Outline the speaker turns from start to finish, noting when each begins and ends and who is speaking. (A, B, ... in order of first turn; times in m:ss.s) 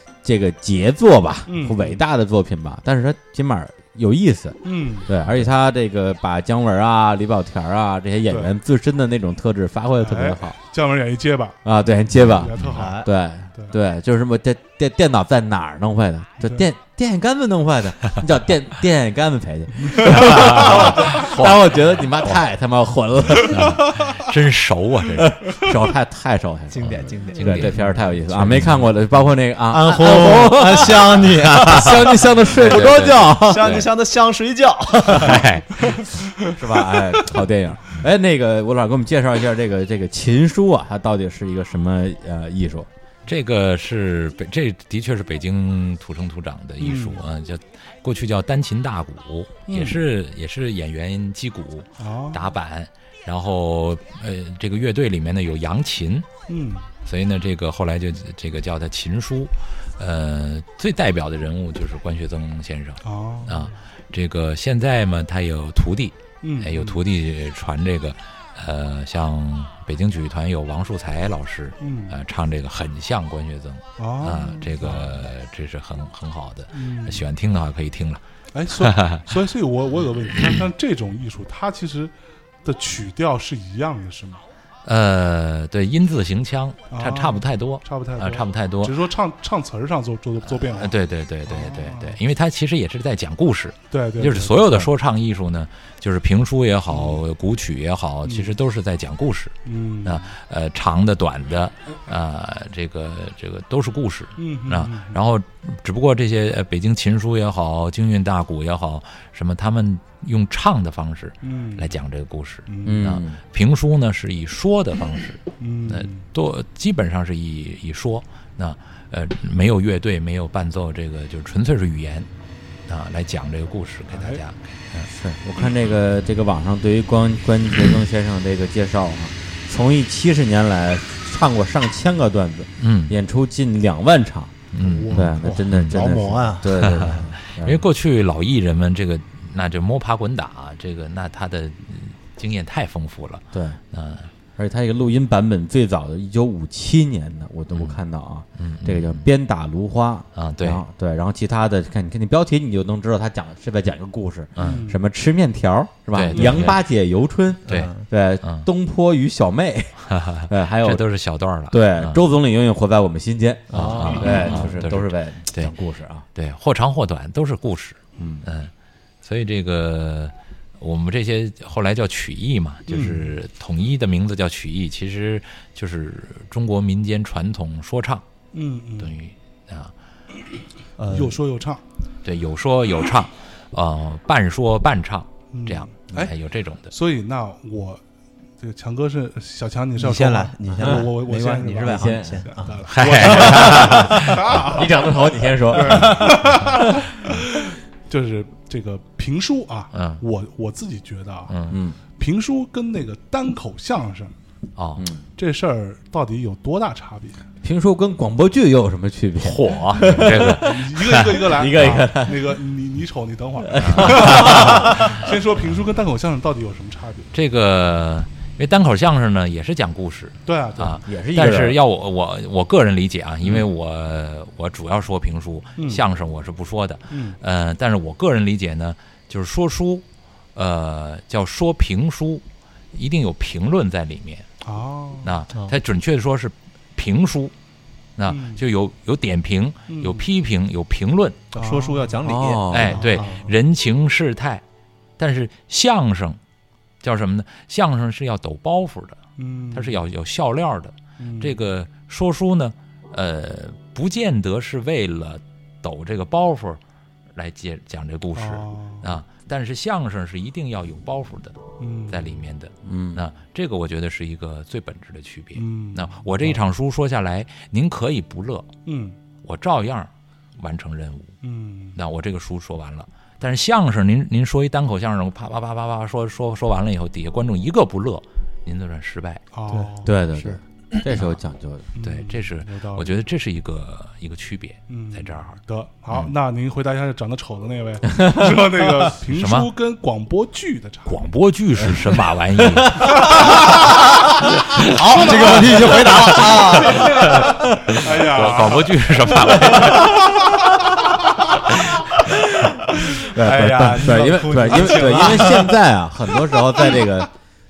0:00.2-0:10.6 A
0:01.5-0:02.0 B
0:04.6-0:05.1 B
0:10.0-0:11.6 B
0:11.6-0:23.8 A
0:12.1-0:13.7 B
0:12.5-0:12.8 C
0:12.8-0:13.1 D
0:19.9-0:20.5 B
0:20.1-0:22.4 C
0:23.4-0:25.4 C
0:25.2-0:33.8 A
0:26.7-0:27.9 D
0:27.3-0:28.9 C
0:29.7-0:35.4 D
0:32.5-0:33.9 C
0:35.1-0:35.8 C
0:35.2-0:35.4 A
0:36.4-0:42.9 A
0:43.2-0:56.3 C
0:46.8-0:47.2 B
0:49.7-0:50.0 B
0:52.0-0:52.4 B
0:56.5-0:56.9 B
0:57.0-1:18.2 C
1:03.0-1:03.7 B
1:06.4-1:07.0 B
1:11.8-1:12.2 B
1:14.0-1:15.2 B
1:16.7-1:17.2 B
1:18.5-1:22.1 B
1:18.7-1:19.3 C
1:20.3-1:20.6 C
1:22.6-1:24.4 B
1:24.8-1:28.9 C
1:26.9-1:32.2 B
1:30.4-1:39.5 C
1:33.9-1:34.9 B
1:36.9-1:37.2 B
1:38.2-1:38.5 B
1:39.6-1:40.3 B
1:40.0-2:02.3 C
1:44.4-1:45.2 B
1:51.4-1:51.9 B
1:52.7-1:53.1 B
1:52.8-1:53.4 A
1:55.6-1:56.2 B
2:02.9-2:05.1 C
2:04.1-2:04.4 B
2:05.1-2:17.8 A
2:12.8-2:13.1 C
2:14.7-2:16.0 C
2:14.8-2:15.4 B
2:15.4-2:17.3 D
2:16.7-2:24.3 C
2:23.5-2:23.8 A
2:24.6-2:41.0 A
2:27.7-2:28.0 C
2:28.6-2:29.3 C
2:30.3-2:30.8 C
2:34.6-2:34.8 C
2:34.6-2:35.0 B
2:36.1-2:36.8 C
2:36.3-2:36.6 B
2:37.7-2:38.1 D
2:37.7-2:38.7 C
2:40.0-2:42.2 C
2:41.7-2:46.2 A
2:43.7-2:45.7 C
2:43.7-2:44.7 D
2:46.3-2:48.7 C
2:48.2-2:48.4 A
2:49.2-2:58.2 C
2:52.9-2:53.4 B
2:58.5-2:59.1 B
2:59.0-2:59.9 C
3:01.0-3:01.4 D
3:01.0-3:01.8 B
3:02.2-3:06.9 C
3:05.5-3:06.3 B
3:06.9-3:08.0 B
3:08.6-3:15.0 B
3:10.0-3:14.0 D
3:11.9-3:12.5 A
3:12.9-3:14.6 C
3:13.5-3:17.0 A
3:15.7-3:21.5 B
3:19.9-3:20.2 C
3:21.5-3:21.8 C
3:21.7-3:22.0 A
3:22.2-3:24.3 B
3:24.8-3:25.1 C
3:25.0-3:25.2 A
3:25.4-3:27.4 B
3:27.6-3:32.6 A
3:29.4-3:30.7 C
3:30.5-3:37.3 B
3:33.6-3:35.2 A
3:33.8-3:35.2 C
3:37.3-3:54.5 C
3:40.4-3:41.0 B
3:41.0-3:41.8 A
3:45.8-3:46.0 B
3:47.1-3:47.4 B
3:54.6-3:55.4 B
3:55.2-3:57.5 C
3:58.2-4:01.4 C
3:58.3-3:58.6 B
3:59.9-4:00.3 B
4:01.5-4:03.5 D
4:01.5-4:02.2 B
4:02.2-4:03.1 A
4:02.7-4:04.6 C
4:05.2-4:06.4 C
4:07.0-4:09.2 C
4:09.4-4:10.0 B
4:09.7-4:16.8 C
4:11.2-4:11.6 B
4:17.3-4:21.6 C
4:18.3-4:19.0 B
4:21.8-4:22.4 B
4:22.1-4:28.7 C
4:22.8-4:23.2 A
4:25.6-4:26.6 B
4:28.8-4:29.2 B
4:29.4-4:31.3 C
4:31.4-4:32.0 B
4:32.0-4:39.4 C
4:39.5-4:40.1 B
4:39.7-4:41.1 D
4:40.0-4:41.9 A
4:42.0-4:43.1 B
4:42.0-4:45.6 C
4:44.9-4:51.3 B
4:48.1-4:48.7 A
4:49.3-4:49.7 C
4:51.0-4:53.6 C
4:52.6-4:53.8 A
4:53.0-4:53.6 B
4:54.6-4:55.2 C
4:54.8-4:57.5 D
4:55.2-4:58.0 A
4:55.3-4:56.0 B
4:56.3-5:00.1 C
4:57.2-5:00.0 B
4:59.7-5:01.0 A
5:02.3-5:07.3 A
5:03.3-5:05.8 D
5:04.6-5:05.4 B